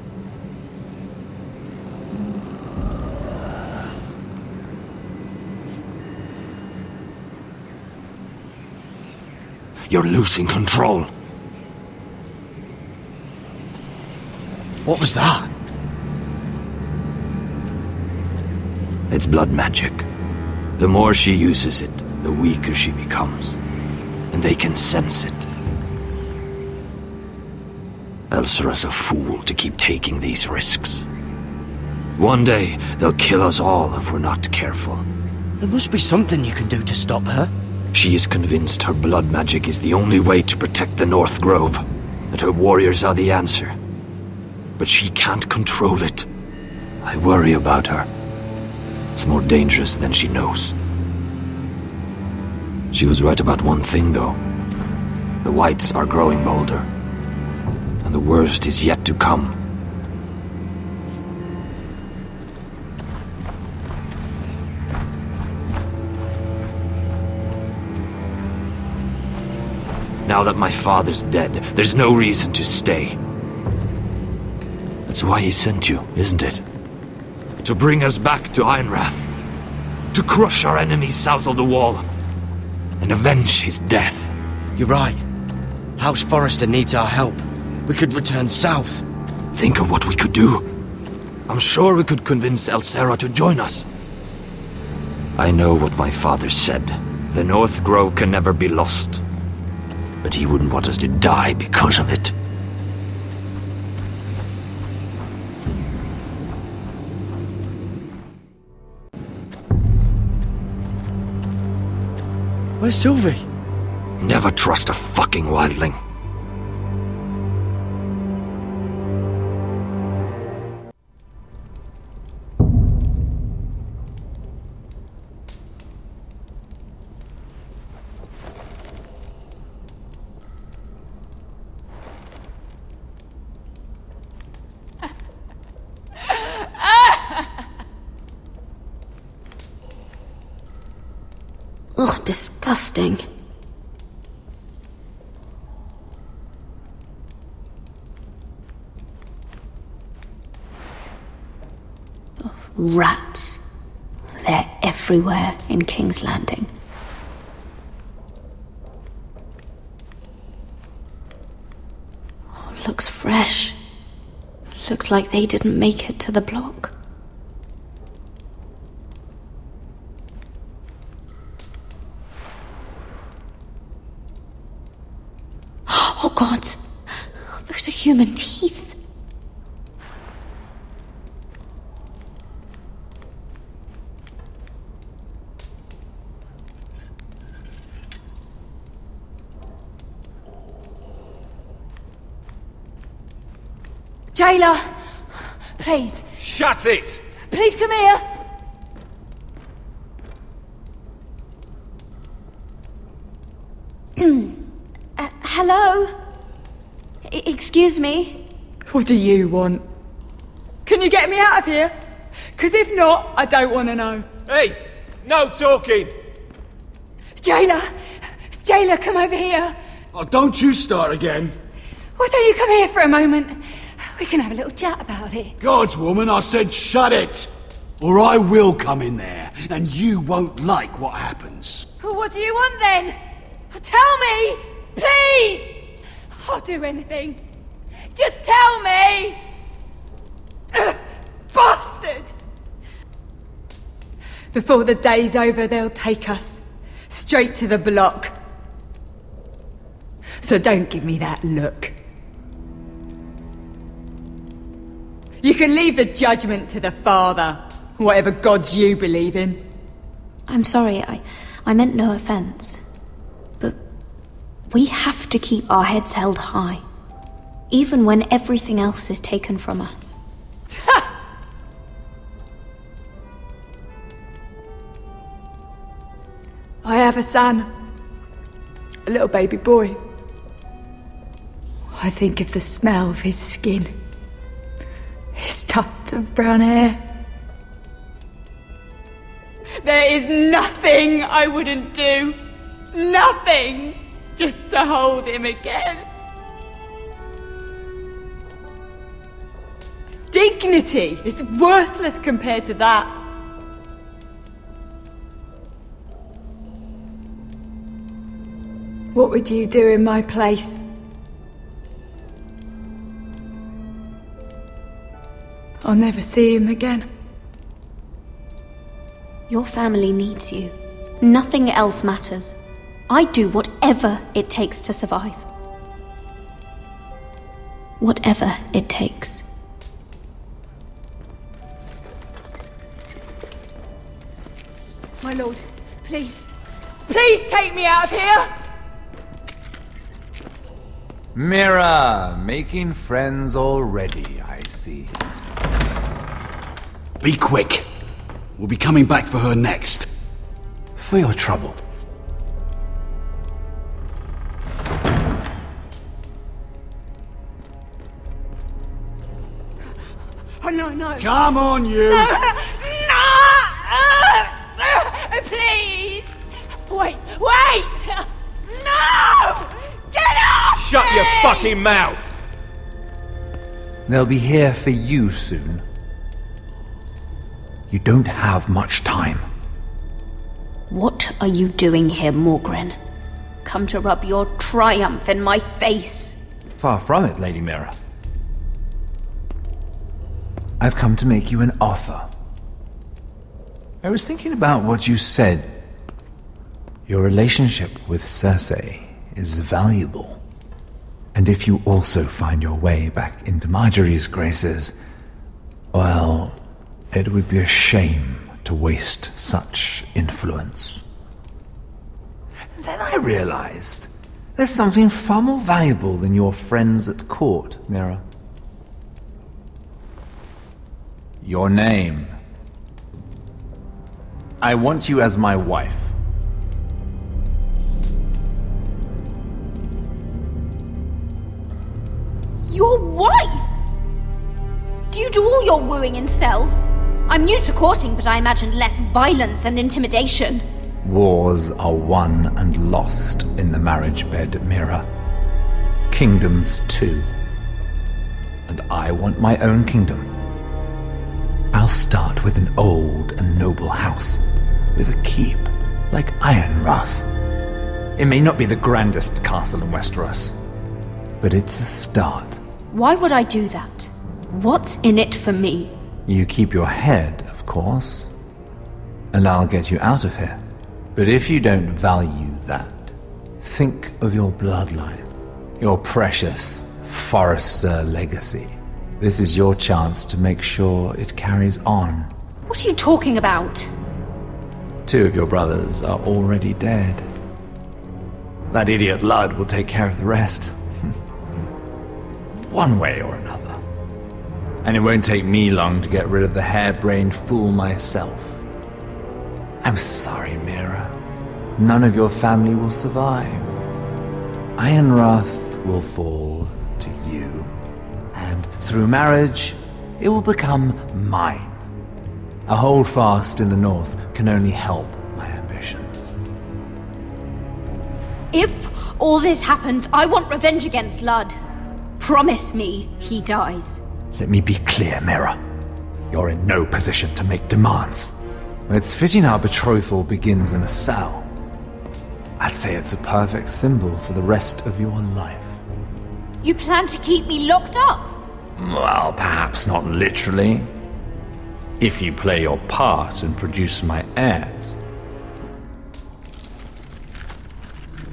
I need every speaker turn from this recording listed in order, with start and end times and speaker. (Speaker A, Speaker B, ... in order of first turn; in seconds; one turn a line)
Speaker A: 9.9-11.1
Speaker B: 14.8-15.5
Speaker A: 19.1-20.1
Speaker A: 20.8-23.6
Speaker A: 24.3-25.5
Speaker A: 28.3-31.0
Speaker A: 32.2-35.0
Speaker B: 35.6-37.5
Speaker A: 37.9-43.7
Speaker A: 44.8-46.3
Speaker A: 47.0-48.1
Speaker A: 49.1-50.7
Speaker A: 52.9-54.4
Speaker A: 55.4-56.9
Speaker A: 58.0-59.6
Speaker A: 70.2-73.2
Speaker A: 75.1-76.6
Speaker A: 77.6-79.3
Speaker A: 80.1-82.0
Speaker A: 83.0-84.3
Speaker B: 84.8-85.2
Speaker B: 86.0-89.0
Speaker A: 89.5-90.6
Speaker A: 91.5-93.8
Speaker A: 95.3-99.2
Speaker A: 100.2-102.3
Speaker B: 112.8-113.5
Speaker A: 114.2-116.0
Speaker C: 141.9-143.2
Speaker C: 152.4-153.6
Speaker C: 154.4-156.7
Speaker C: 162.6-163.8
Speaker C: 164.8-166.9
Speaker C: 175.9-176.8
Speaker C: 177.4-178.9
Speaker D: 194.3-194.9
Speaker D: 195.8-196.2
Speaker E: 196.4-197.2
Speaker D: 197.5-198.2
Speaker C: 204.2-204.6
Speaker C: 205.2-206.1
Speaker C: 207.2-208.4
Speaker D: 208.9-209.8
Speaker D: 210.8-211.9
Speaker D: 212.6-214.3
Speaker E: 214.5-216.1
Speaker D: 217.4-217.9
Speaker D: 218.5-219.8
Speaker F: 220.1-221.5
Speaker D: 222.2-223.6
Speaker D: 224.1-225.5
Speaker F: 225.6-227.5
Speaker F: 228.0-231.9
Speaker D: 232.0-233.2
Speaker D: 233.7-235.8
Speaker D: 236.4-237.4
Speaker D: 238.1-239.4
Speaker D: 240.7-241.0
Speaker D: 241.5-242.3
Speaker D: 244.5-248.3
Speaker D: 250.4-252.0
Speaker D: 255.4-259.6
Speaker C: 260.5-262.8
Speaker C: 264.7-266.8
Speaker C: 267.7-270.2
Speaker D: 276.8-277.7
Speaker D: 279.1-280.0
Speaker D: 281.9-283.9
Speaker D: 285.3-287.0
Speaker D: 289.8-292.4
Speaker D: 292.9-296.1
Speaker D: 300.3-303.2
Speaker D: 309.1-310.8
Speaker D: 315.8-317.1
Speaker C: 319.5-322.6
Speaker C: 323.1-325.5
Speaker C: 328.0-329.4
Speaker D: 335.2-336.4
Speaker D: 337.1-338.5
Speaker G: 341.3-345.1
Speaker F: 347.2-347.9
Speaker F: 348.6-350.1
Speaker G: 351.0-351.8
Speaker D: 360.6-361.6
Speaker F: 361.2-362.3
Speaker D: 362.1-366.3
Speaker D: 366.9-371.8
Speaker E: 370.8-372.2
Speaker G: 374.1-375.8
Speaker G: 377.9-379.5
Speaker C: 380.9-382.9
Speaker C: 383.6-386.4
Speaker G: 386.8-387.9
Speaker G: 390.8-392.3
Speaker G: 394.0-395.8
Speaker G: 397.1-400.4
Speaker G: 401.3-405.0
Speaker G: 405.9-406.6
Speaker G: 407.1-411.1
Speaker G: 412.7-418.2
Speaker G: 421.4-422.3
Speaker G: 424.6-426.1
Speaker C: 432.6-433.6
Speaker C: 435.1-440.6
Speaker G: 441.0-445.1
Speaker G: 446.1-447.3
Speaker G: 448.7-450.3
Speaker G: 451.7-454.4
Speaker G: 454.9-457.3
Speaker G: 458.1-460.6
Speaker G: 461.4-462.6
Speaker C: 462.9-465.9
Speaker G: 466.2-468.3
Speaker G: 469.3-470.6
Speaker G: 471.1-475.3
Speaker G: 475.8-482.3
Speaker C: 482.7-483.9
Speaker G: 485.1-487.3
Speaker G: 488.7-491.1
Speaker G: 492.6-493.8
Speaker G: 494.8-498.6
Speaker G: 499.8-501.2
Speaker G: 501.8-503.7
Speaker G: 504.8-507.7
Speaker G: 508.3-511.8
Speaker G: 512.7-516.4
Speaker C: 518.5-521.5
Speaker C: 522.2-524.0
Speaker G: 524.3-525.6
Speaker G: 526.3-528.4
Speaker G: 528.9-531.5
Speaker G: 532.6-535.8
Speaker C: 536.6-538.4
Speaker G: 538.8-540.9
Speaker G: 542.0-545.0